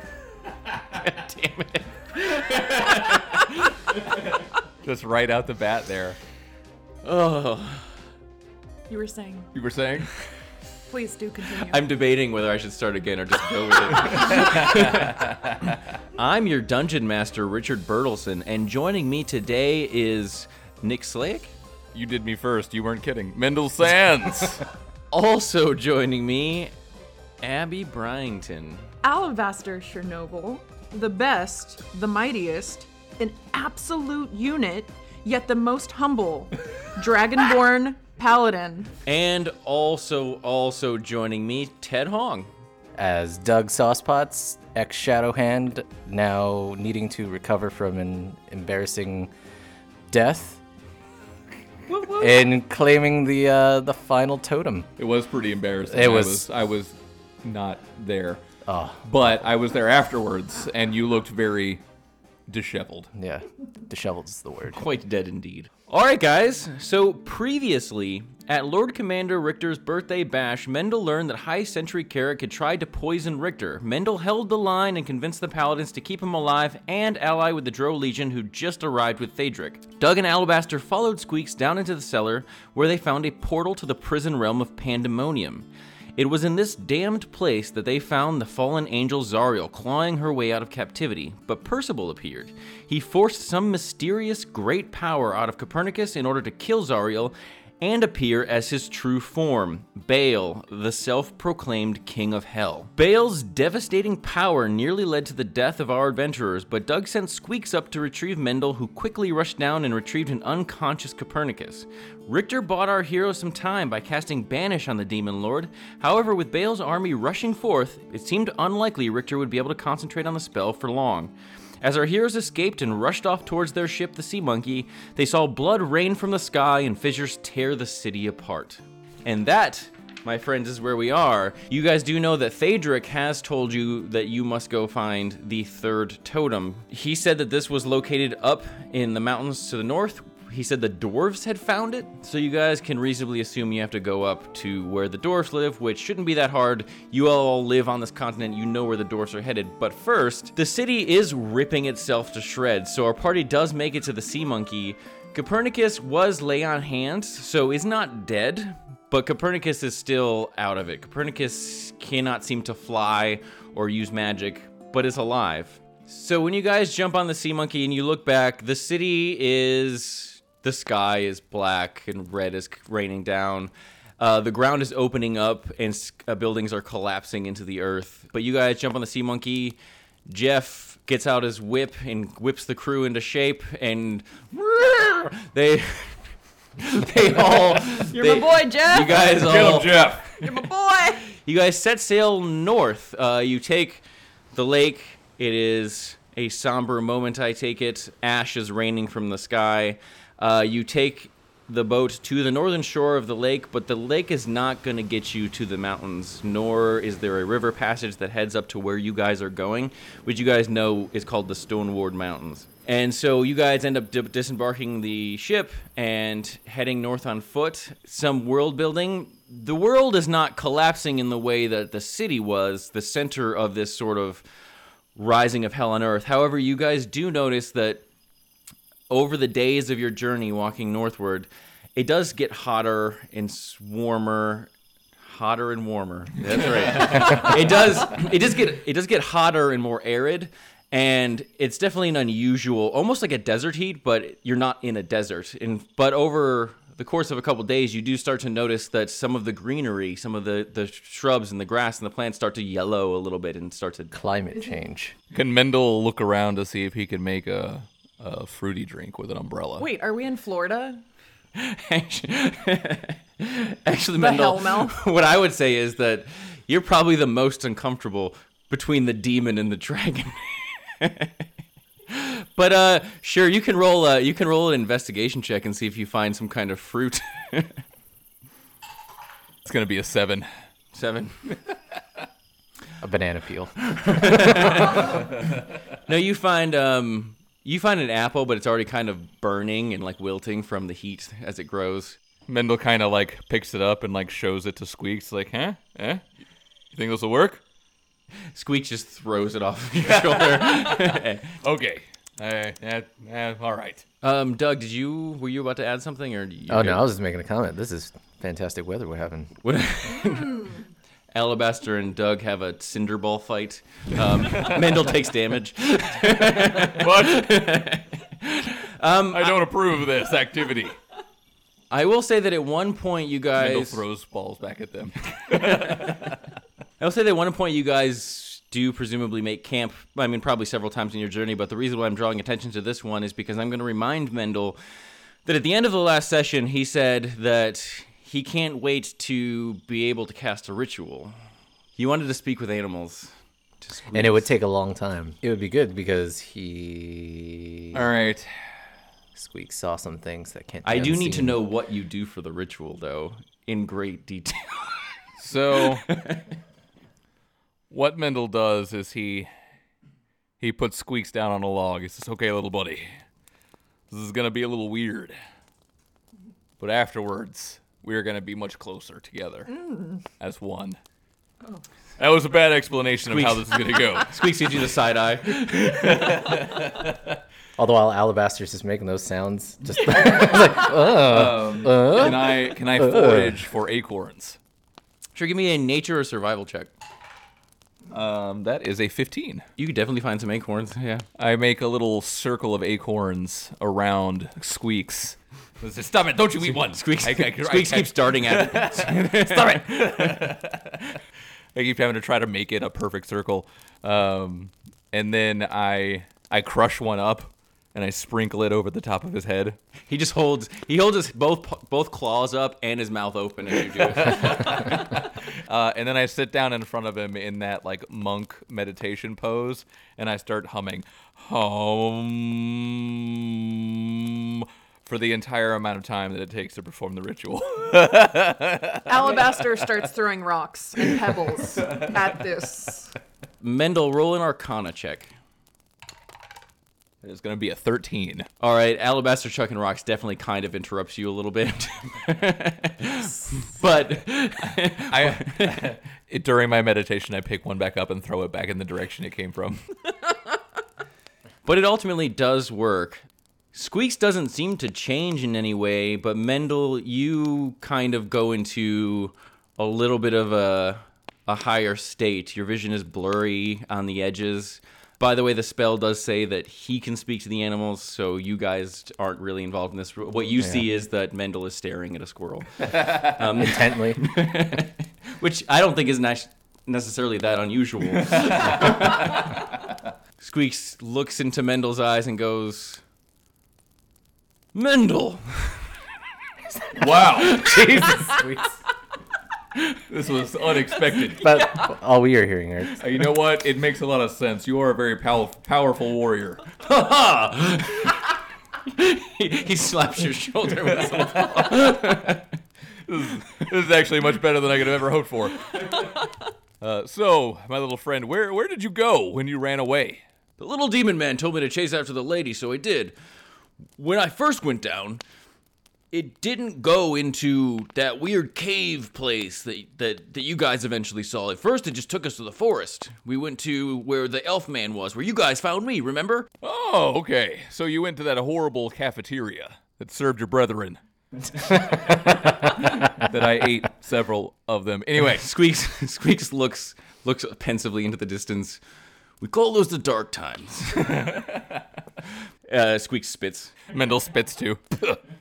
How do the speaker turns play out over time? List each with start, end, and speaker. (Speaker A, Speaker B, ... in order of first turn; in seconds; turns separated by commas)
Speaker A: 0.9-3.7, Speaker B: 4.8-6.2, Speaker A: 7.0-7.9, Speaker C: 8.9-9.5, Speaker B: 9.5-10.1, Speaker C: 10.9-11.8, Speaker A: 11.6-15.3, Speaker B: 14.1-15.7, Speaker A: 16.1-21.5, Speaker B: 21.9-24.6, Speaker A: 25.1-26.7, Speaker A: 27.4-28.9, Speaker C: 29.0-38.9, Speaker A: 39.0-42.5, Speaker D: 43.0-49.3, Speaker D: 50.1-50.6, Speaker C: 51.9-52.5, Speaker D: 52.1-54.9, Speaker B: 55.0-58.4, Speaker D: 55.9-56.5, Speaker D: 58.6-59.0, Speaker B: 59.0-61.8, Speaker B: 62.5-63.1, Speaker D: 63.1-64.8, Speaker A: 64.7-186.2, Speaker A: 186.8-190.0, Speaker C: 188.1-189.4, Speaker B: 189.3-190.6, Speaker C: 190.4-191.2, Speaker A: 191.2-224.4, Speaker A: 225.2-228.0, Speaker A: 229.1-234.7, Speaker A: 235.2-254.1, Speaker B: 237.0-237.5, Speaker D: 254.1-255.1, Speaker B: 255.3-259.9, Speaker C: 259.8-261.0, Speaker A: 261.5-271.4, Speaker C: 264.2-265.0, Speaker A: 272.1-277.8, Speaker B: 279.6-280.5, Speaker A: 280.9-281.4, Speaker D: 283.0-284.8, Speaker A: 283.8-285.2, Speaker A: 286.1-292.2, Speaker B: 292.5-296.2, Speaker B: 296.9-297.6, Speaker A: 298.5-301.6, Speaker B: 300.2-304.0, Speaker A: 304.2-307.0, Speaker D: 306.7-309.5, Speaker A: 309.6-310.8, Speaker A: 311.3-319.6, Speaker B: 316.5-317.6, Speaker B: 319.3-321.0, Speaker A: 321.9-324.0, Speaker B: 323.6-326.4, Speaker A: 325.4-326.4, Speaker A: 327.0-334.8, Speaker A: 335.4-341.3, Speaker A: 341.9-344.5, Speaker D: 344.1-348.1, Speaker B: 347.9-348.5, Speaker D: 349.3-351.6, Speaker A: 350.8-355.1, Speaker B: 355.4-356.1, Speaker A: 355.8-356.4, Speaker B: 357.9-359.5, Speaker B: 360.6-363.1, Speaker B: 364.1-365.3, Speaker B: 366.8-369.8, Speaker C: 369.7-370.2, Speaker B: 370.4-371.0, Speaker B: 372.2-374.4, Speaker A: 373.3-376.1, Speaker B: 375.5-377.3, Speaker D: 377.8-383.6, Speaker C: 380.2-380.8, Speaker B: 380.3-384.6, Speaker A: 385.4-386.9, Speaker B: 388.1-389.6, Speaker A: 389.8-391.2, Speaker B: 391.4-401.0, Speaker A: 396.7-400.5, Speaker B: 401.7-409.8, Speaker A: 410.1-414.7, Speaker B: 414.0-429.5, Speaker C: 429.1-433.1, Speaker A: 433.6-435.3, Speaker B: 437.2-438.5, Speaker A: 438.6-445.9, Speaker B: 445.1-449.8, Speaker A: 451.6-479.4, Speaker D: 473.4-474.2, Speaker B: 478.2-479.2, Speaker A: 480.4-483.0, Speaker A: 484.7-485.8, Speaker B: 486.9-487.8, Speaker A: 487.3-488.4, Speaker D: 487.6-488.7, Speaker B: 490.1-491.4, Speaker C: 491.3-491.9, Speaker D: 491.4-493.1, Speaker B: 493.0-496.6, Speaker A: 496.8-502.5, Speaker B: 501.1-502.0, Speaker B: 503.1-506.1, Speaker B: 506.8-510.2, Speaker A: 510.6-513.1, Speaker A: 514.0-515.2, Speaker A: 516.1-526.5, Speaker B: 526.6-531.0, Speaker B: 531.8-535.5, Speaker A: 535.3-538.8, Speaker A: 539.4-541.3, Speaker B: 541.0-541.8, Speaker A: 542.7-543.8, Speaker B: 543.9-545.2